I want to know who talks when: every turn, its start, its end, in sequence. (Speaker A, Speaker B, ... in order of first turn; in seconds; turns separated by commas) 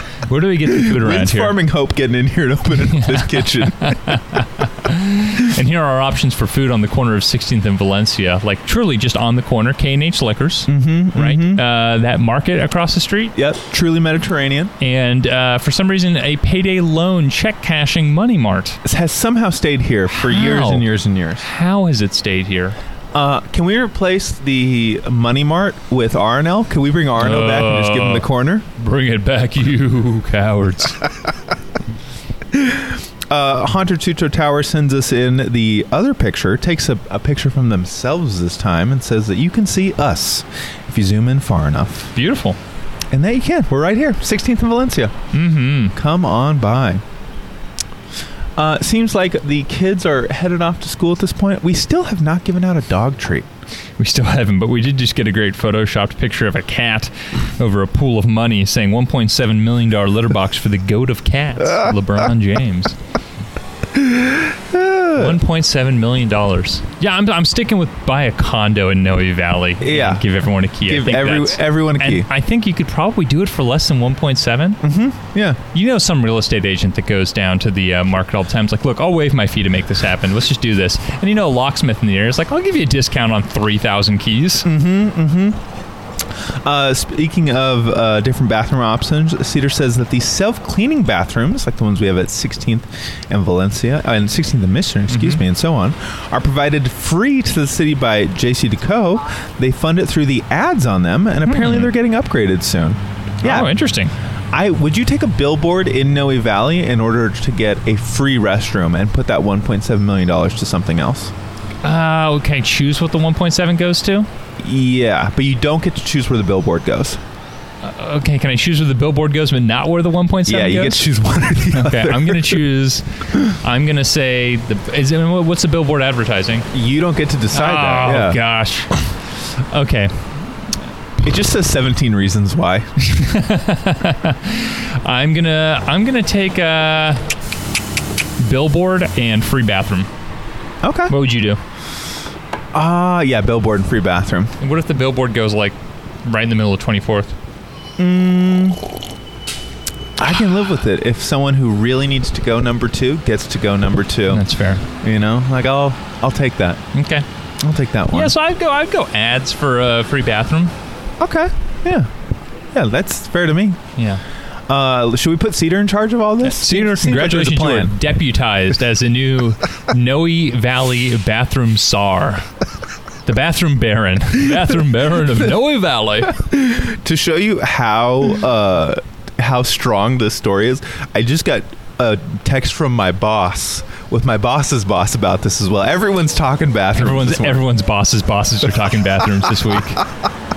Speaker A: 0.2-1.6, Speaker B: 0.7-4.1, Speaker A: 2.9-13.3, Speaker B: 10.7-11.6, Speaker B: 13.3-14.7, Speaker A: 14.8-18.8, Speaker B: 18.8-21.4, Speaker A: 20.2-20.9, Speaker A: 21.4-22.8, Speaker B: 23.1-28.6, Speaker A: 27.2-31.0, Speaker B: 32.5-42.1, Speaker A: 42.1-42.6, Speaker B: 43.1-45.1, Speaker A: 45.3-45.9, Speaker B: 45.9-47.0, Speaker B: 48.5-53.5, Speaker A: 54.0-63.0, Speaker B: 63.9-65.4, Speaker A: 65.1-74.8, Speaker B: 69.8-70.2, Speaker B: 70.8-72.3, Speaker B: 74.8-75.6, Speaker A: 75.7-84.7, Speaker B: 84.6-85.6, Speaker B: 86.6-103.7, Speaker A: 95.1-95.4, Speaker A: 101.4-101.9, Speaker A: 103.4-104.1, Speaker B: 104.5-111.3, Speaker A: 111.8-114.3, Speaker B: 114.6-117.2, Speaker A: 117.8-121.1, Speaker B: 120.5-122.6, Speaker A: 121.7-126.7, Speaker B: 126.7-128.4, Speaker A: 127.5-129.0, Speaker A: 129.7-130.3, Speaker B: 131.2-132.9, Speaker A: 133.0-137.2, Speaker A: 138.4-140.1, Speaker B: 140.8-141.1, Speaker A: 141.1-141.6, Speaker B: 142.7-144.5, Speaker A: 144.6-147.3, Speaker B: 148.0-148.8, Speaker B: 150.2-154.4, Speaker A: 154.3-154.8, Speaker B: 155.0-156.8, Speaker A: 156.9-157.2, Speaker B: 157.6-158.3, Speaker A: 158.1-160.7, Speaker B: 161.2-162.1, Speaker B: 162.7-163.8, Speaker A: 164.0-164.2, Speaker B: 164.7-168.0, Speaker A: 166.4-172.5, Speaker A: 173.2-176.4, Speaker B: 176.3-187.6, Speaker A: 186.9-190.0